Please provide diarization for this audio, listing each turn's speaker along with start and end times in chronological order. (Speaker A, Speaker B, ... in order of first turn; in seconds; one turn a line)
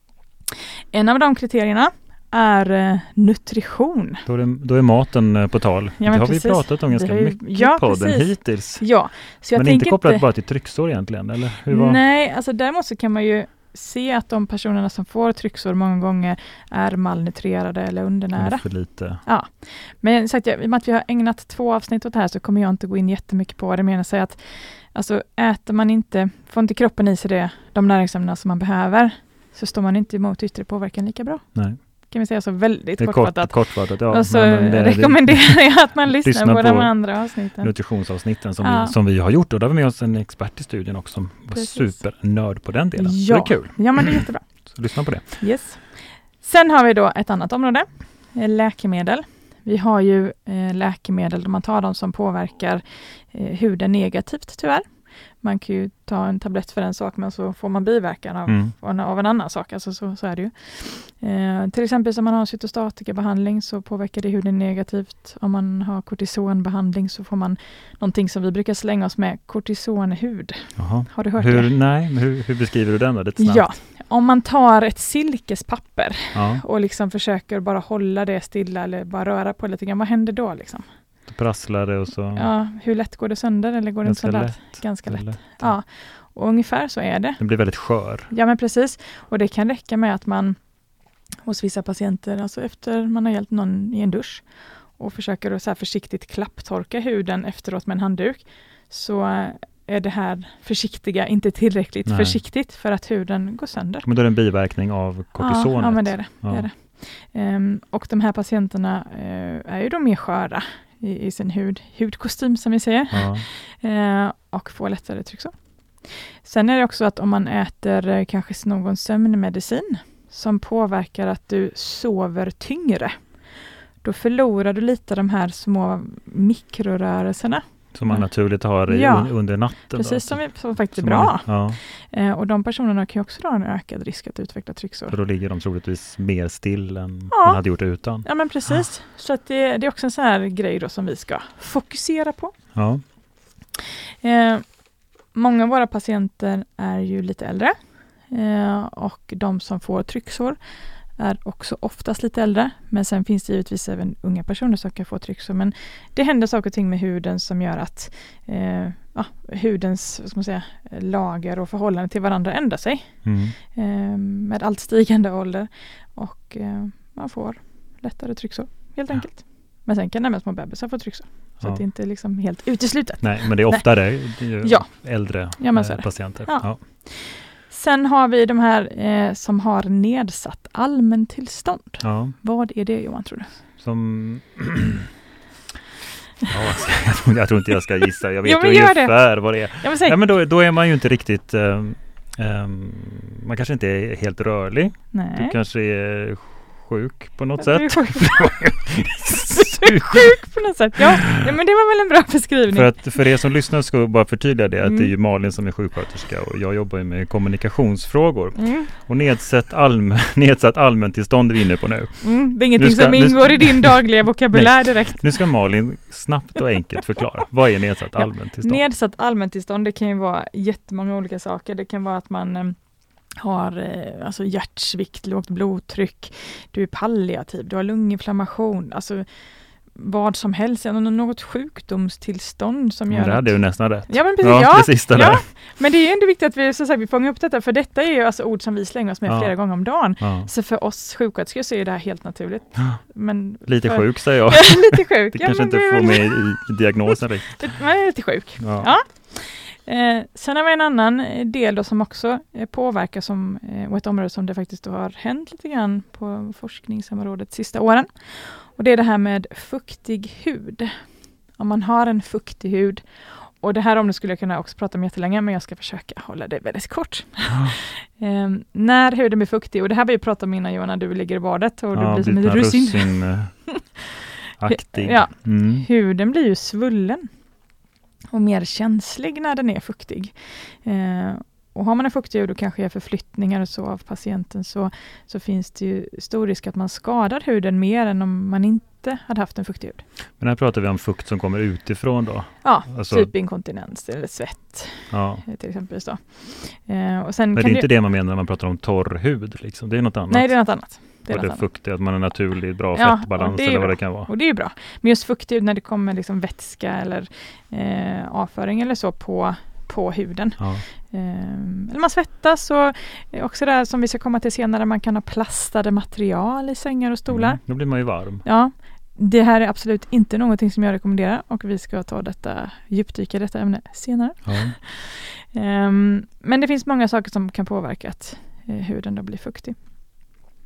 Speaker A: 0.5-4.2
Speaker B: 4.3-12.0
Speaker A: 6.0-10.3
Speaker A: 11.7-37.9
Speaker B: 18.4-19.2
Speaker B: 31.6-31.8
Speaker B: 33.0-45.4
Speaker A: 38.6-39.0
Speaker A: 41.5-42.1
Speaker A: 43.0-71.8
Speaker B: 58.5-58.8
Speaker B: 70.8-73.7
Speaker A: 73.4-80.8
Speaker B: 76.3-76.6
Speaker B: 81.3-82.5
Speaker A: 82.3-90.7
Speaker B: 84.0-85.7
Speaker B: 87.4-88.3
Speaker A: 91.4-104.1
Speaker B: 102.1-102.4
Speaker B: 104.0-106.7
Speaker A: 105.4-135.2
Speaker B: 113.1-113.4
Speaker B: 127.9-131.8
Speaker B: 135.1-138.3
Speaker A: 137.3-142.6
Speaker B: 142.7-143.1
Speaker A: 144.2-183.6
Speaker B: 163.2-163.6
Speaker B: 173.2-176.8
Speaker B: 182.0-182.3
Speaker B: 183.8-185.1
Speaker B: 186.5-200.4
Speaker A: 188.4-190.2
Speaker A: 195.1-195.6
Speaker A: 197.6-198.8
Speaker A: 199.6-203.2
Speaker B: 202.7-218.8
Speaker A: 204.8-205.1
Speaker A: 208.6-208.9
Speaker A: 212.2-215.5
Speaker A: 218.2-222.8
Speaker A: 223.3-229.3
Speaker A: 229.9-274.0
Speaker B: 233.1-235.4
Speaker B: 239.3-240.5
Speaker B: 243.6-247.8
Speaker B: 248.6-248.9
Speaker B: 271.9-273.9
Speaker B: 274.6-275.9
Speaker A: 274.6-277.3
Speaker A: 278.3-290.1
Speaker B: 290.4-293.3
Speaker A: 292.6-297.9
Speaker B: 295.1-295.4
Speaker B: 297.5-304.3
Speaker A: 300.3-301.7
Speaker A: 302.9-329.8
Speaker B: 310.6-310.8
Speaker B: 317.3-318.4
Speaker B: 324.4-324.8